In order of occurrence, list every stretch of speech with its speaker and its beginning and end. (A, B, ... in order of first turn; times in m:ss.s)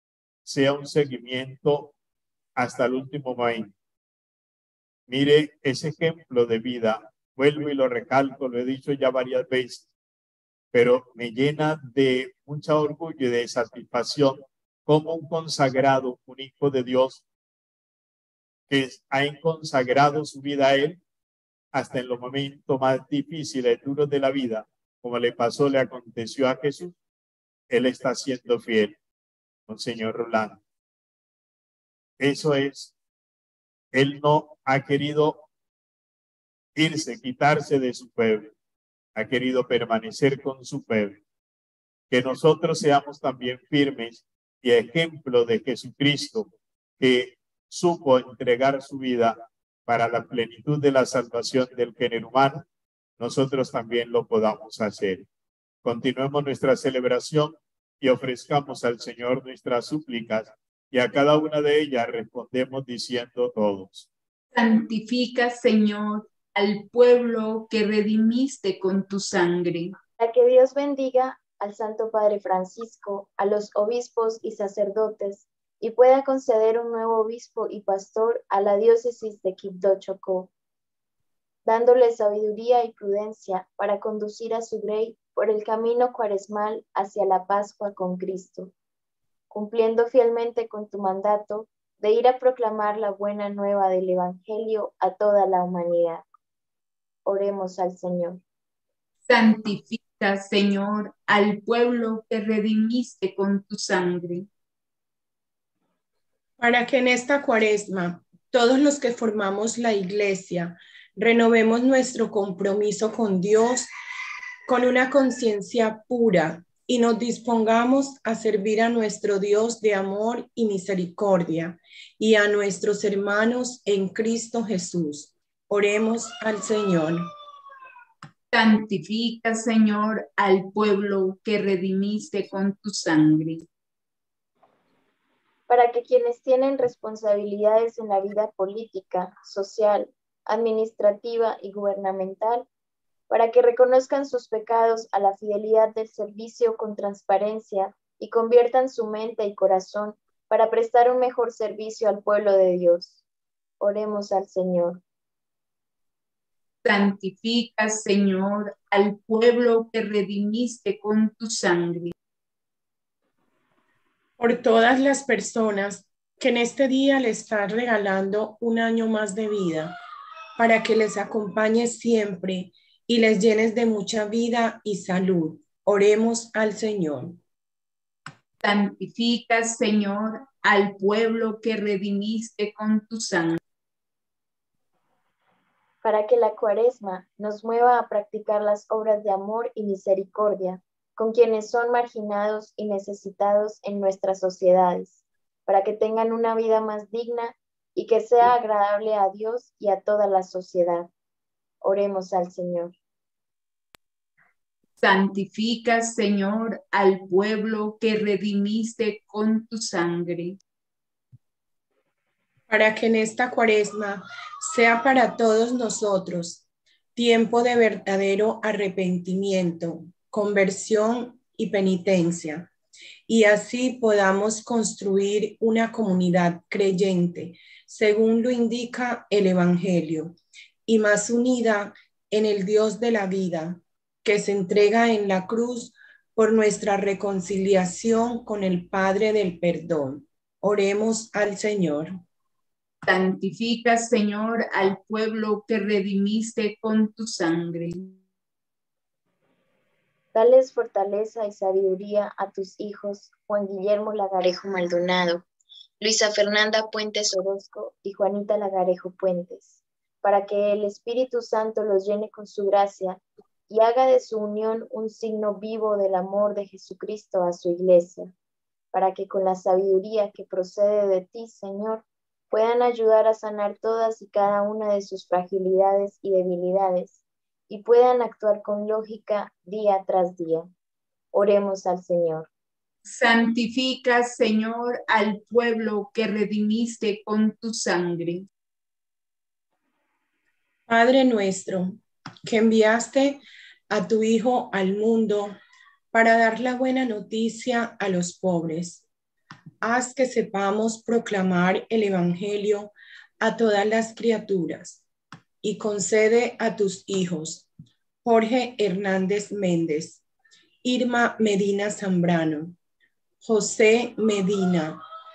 0:00.5-0:01.9 A
0:02.6-0:03.7 A
0:05.1-0:09.8 A
0:10.7-0:17.2 A
0:18.7-0:21.0 A
0:21.7-0:27.0 A
0:27.7-0:29.0 A
0:29.7-0:30.6 A
0:32.2-0:32.9 A
0:33.9-0:35.4 A
0:36.8-0:38.5 A
0:39.2-0:41.2 A
0:42.1-0:52.6 A
0:53.2-0:55.3 A
0:55.8-1:04.1 A
1:04.5-1:10.0 B
1:10.2-1:20.5 C
1:21.6-1:28.7 C
1:29.5-1:36.2 C
1:37.3-1:38.4 C
1:39.3-1:44.5 B
1:46.6-1:53.9 D
1:54.7-2:07.3 D
2:08.5-2:13.7 B
2:15.7-2:22.7 C
2:23.3-2:33.2 C
2:33.8-2:35.0 C
2:36.8-2:42.1 B
2:44.4-2:50.0 D
2:50.6-2:57.4 D
2:58.6-3:03.6 B
3:06.0-3:21.1 C
3:21.8-3:23.0 C
3:25.0-3:30.6 B
3:32.7-3:36.6 D
3:37.2-3:42.7 D
3:43.3-4:02.2 D
4:03.0-4:08.2 B
4:10.3-4:15.5 C
4:16.0-4:28.3 C
4:28.9-4:40.7 C
4:41.3-4:42.5 C
4:43.0-4:48.5 B
4:50.9-4:55.6 D
4:56.1-4:59.0 D
4:59.8-5:05.0 D
5:05.6-5:07.7 D
5:08.2-5:10.2 D
5:10.8-5:12.8 D
5:13.4-5:15.0 D